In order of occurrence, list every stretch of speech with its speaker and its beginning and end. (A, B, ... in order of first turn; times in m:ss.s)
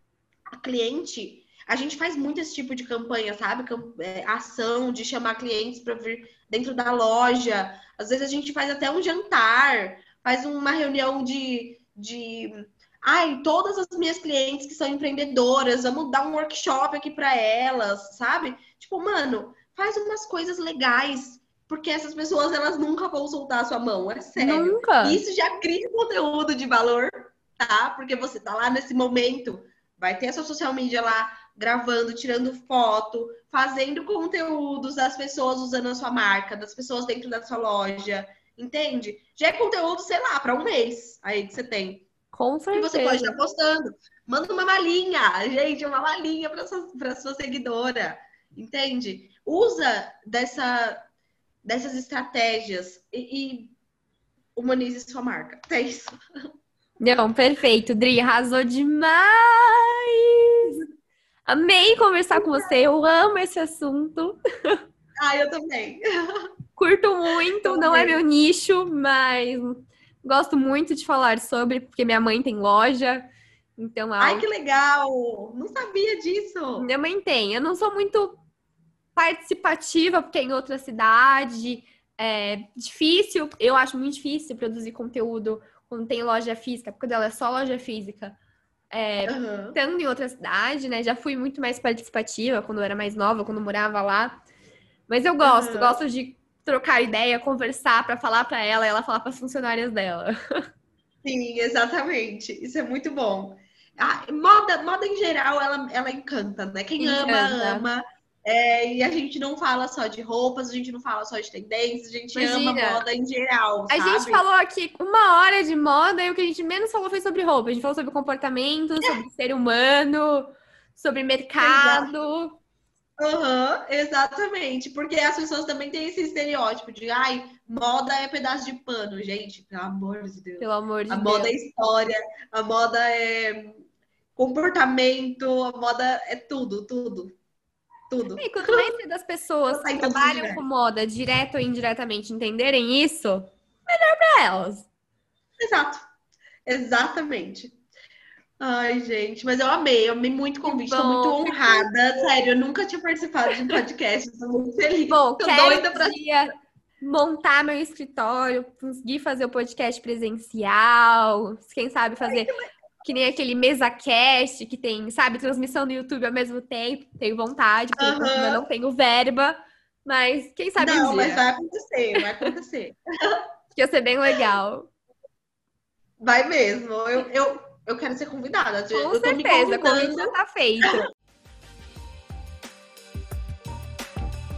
0:00.6-0:42.0 A
0:24.4-0:25.2 B
0:42.3-0:43.4 B
0:42.7-0:51.0 A
0:51.6-0:53.7 A
0:54.6-0:56.1 A
0:57.0-1:00.8 B
1:01.5-1:04.8 B
1:02.4-1:02.7 A
1:05.2-1:06.5 A
1:06.8-1:14.4 B
1:07.6-1:08.2 A
1:14.2-1:16.9 A
1:16.8-1:18.4 B
1:19.2-1:28.4 B
1:28.9-1:34.4 B
1:29.2-1:29.8 A
1:35.1-1:40.4 B
1:35.4-1:36.0 A
1:41.2-1:54.4 A
1:47.0-1:47.8 B
1:52.4-1:53.0 B
1:53.9-2:02.6 B
2:01.6-2:02.1 A
2:03.2-2:13.8 A
2:10.6-2:11.5 B
2:14.4-2:17.3 A
2:18.1-2:18.9 A
2:18.4-2:24.9 B
2:19.7-2:20.6 A
2:25.6-2:26.0 A
2:26.7-2:27.7 A
2:28.6-2:36.2 A
2:30.6-2:31.9 B
2:35.1-2:42.5 B
2:42.2-2:42.6 A
2:43.0-2:51.4 B
2:48.0-2:48.6 A
2:50.8-2:53.4 A
2:53.7-2:54.9 B
2:56.2-3:00.4 A
2:58.9-3:01.0 B